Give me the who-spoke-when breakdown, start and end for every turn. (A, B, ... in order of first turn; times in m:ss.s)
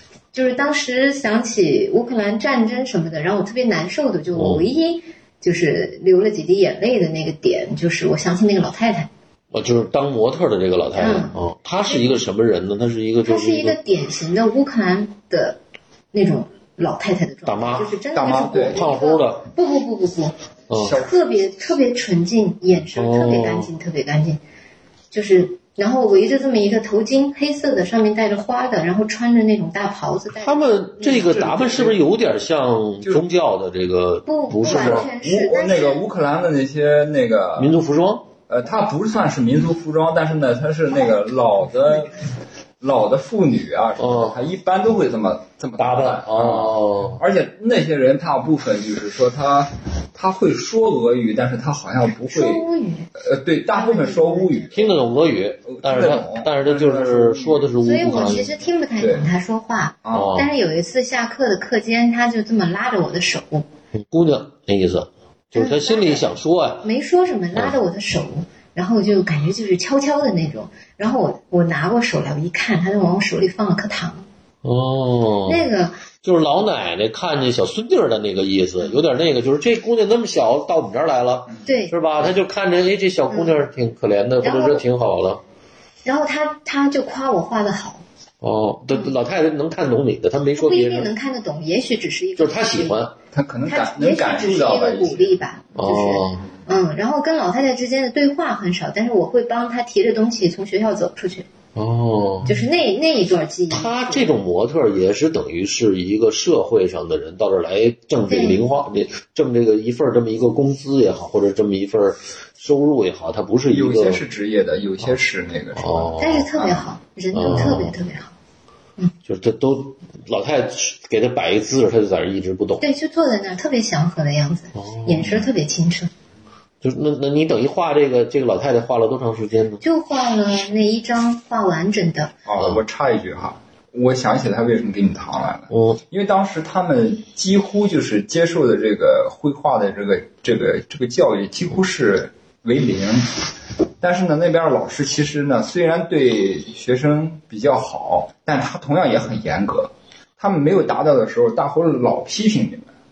0:00.3-0:09.1 A
0:04.3-0:04.7 B
0:09.5-0:13.8 B
0:11.0-0:12.2 A
0:13.2-0:15.6 A
0:16.1-0:24.4 A
0:17.5-0:17.9 B
0:18.2-0:18.8 C
0:18.7-0:19.5 B
0:20.7-0:21.0 B
0:20.7-0:21.2 C
0:23.0-0:23.7 B
0:25.1-0:31.5 A
0:30.4-0:35.1 B
0:31.2-0:32.0 C
0:34.3-0:36.0 A
0:34.6-0:37.8 C
0:37.6-0:38.3 B
0:38.5-0:42.2 C
0:41.1-0:42.2 A
0:42.8-0:52.6 C
0:44.0-0:44.4 B
0:45.8-0:47.2 B
0:52.3-0:53.1 A
0:53.2-0:54.9 C
0:53.7-0:54.9 A
0:54.7-0:58.5 B
0:55.7-0:57.7 C
0:57.8-1:03.7 A
0:59.0-0:59.3 C
1:00.0-1:00.4 C
1:00.1-1:00.5 B
1:04.0-1:06.8 B
1:05.6-1:06.3 A
1:06.8-1:14.3 A
1:14.6-1:15.7 B
1:15.5-1:16.0 A
1:16.2-1:25.4 B
1:21.6-1:21.9 A
1:23.3-1:23.6 A
1:24.4-1:24.8 A
1:26.0-1:28.0 A
1:28.4-1:31.1 B
1:30.6-1:33.0 A
1:32.4-1:33.1 B
1:33.3-1:36.0 C
1:33.7-1:41.5 A
1:35.8-1:36.5 B
1:41.8-1:42.5 B
1:42.4-1:44.3 A
1:43.7-1:54.2 B
1:48.3-1:48.6 A
1:53.7-1:56.9 C
1:55.8-1:56.5 B
1:56.2-1:58.3 A
1:57.3-1:58.0 B
1:59.3-2:02.8 B
2:02.8-2:06.1 A
2:04.8-2:05.5 B
2:06.8-2:09.8 B
2:09.8-2:12.3 A
2:12.5-2:23.4 C
2:15.7-2:16.0 B
2:24.0-2:32.9 C